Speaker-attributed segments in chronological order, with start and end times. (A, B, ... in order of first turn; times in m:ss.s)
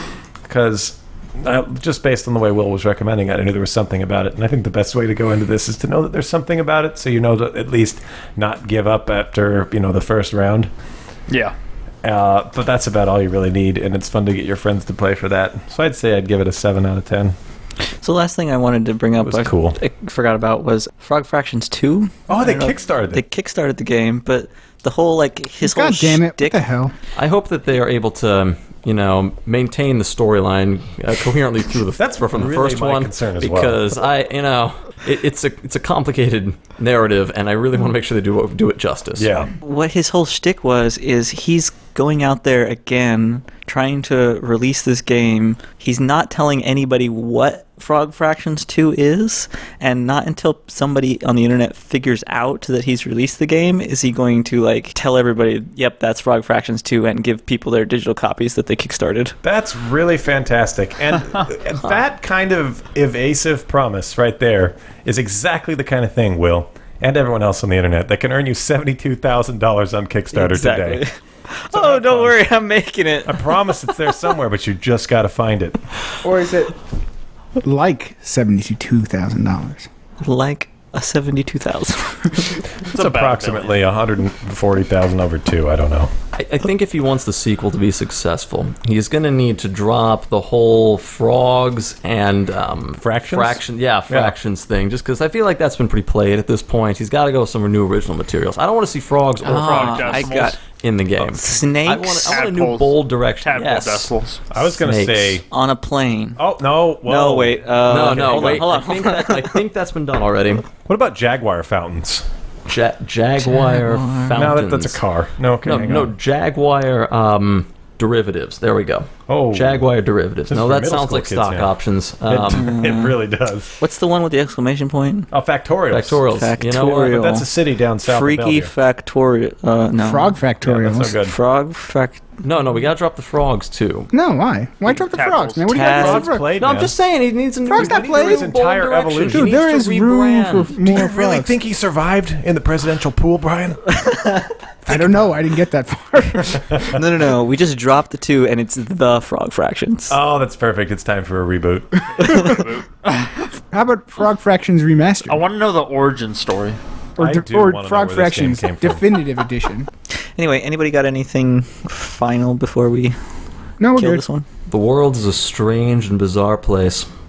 0:00.5-0:10.7 A
0:11.3-0:11.6 B
0:12.0-0:17.4 A
0:18.0-0:26.6 C
0:19.2-0:19.8 A
0:22.3-0:23.2 A
0:25.6-0:26.9 D
0:27.2-0:39.3 E
0:32.0-0:34.0 A
0:39.2-0:39.5 A
0:39.6-0:59.4 C
0:59.4-1:11.0 A
1:10.3-1:13.9 C
1:11.7-1:12.4 A
1:13.3-1:15.8 A
1:16.2-1:16.8 D
1:17.6-1:19.9 D
1:20.2-1:22.7 C
1:22.9-1:23.8 B
1:22.9-1:26.1 A
1:26.4-1:45.4 E
1:33.0-1:34.4 A
1:39.4-1:40.6 B
1:39.4-1:40.6 C
1:41.2-1:41.4 A
1:41.4-1:42.4 C
1:42.3-1:44.4 B
1:44.5-1:45.4 A
1:45.5-1:46.4 C
1:46.4-1:48.6 A
1:47.0-1:49.6 C
1:47.9-1:50.7 E
1:50.8-1:52.3 A
1:52.7-1:55.0 E
1:53.6-1:54.5 C
1:54.4-1:56.1 A
1:55.6-2:02.8 E
1:59.3-1:59.9 A
2:00.5-2:01.7 A
2:02.3-2:03.7 A
2:02.5-2:03.2 C
2:03.8-2:05.3 C
2:05.3-2:06.2 A
2:05.9-2:07.2 E
2:06.3-2:07.5 C
2:07.1-2:08.7 A
2:08.0-2:10.4 C
2:10.0-2:11.2 D
2:10.6-2:11.4 A
2:11.3-2:12.2 C
2:12.4-2:14.1 E
2:14.1-2:16.6 D
2:15.0-2:15.8 B
2:15.7-2:16.4 C
2:15.8-2:17.0 A
2:16.6-2:20.8 E
2:17.7-2:18.5 D
2:17.7-2:19.5 A
2:19.3-2:21.6 D
2:20.8-2:24.0 A
2:24.0-2:24.5 C
2:24.8-2:25.4 A
2:24.9-2:26.8 D
2:26.5-2:27.0 A
2:26.9-2:30.2 C
2:30.1-2:32.5 A
2:32.1-2:33.5 B
2:33.7-2:35.5 D
2:35.3-2:36.8 B
2:37.2-2:39.9 D
2:37.2-2:39.0 A
2:40.4-2:43.2 C
2:43.8-2:44.2 D
2:43.9-2:44.4 C
2:44.7-2:47.1 E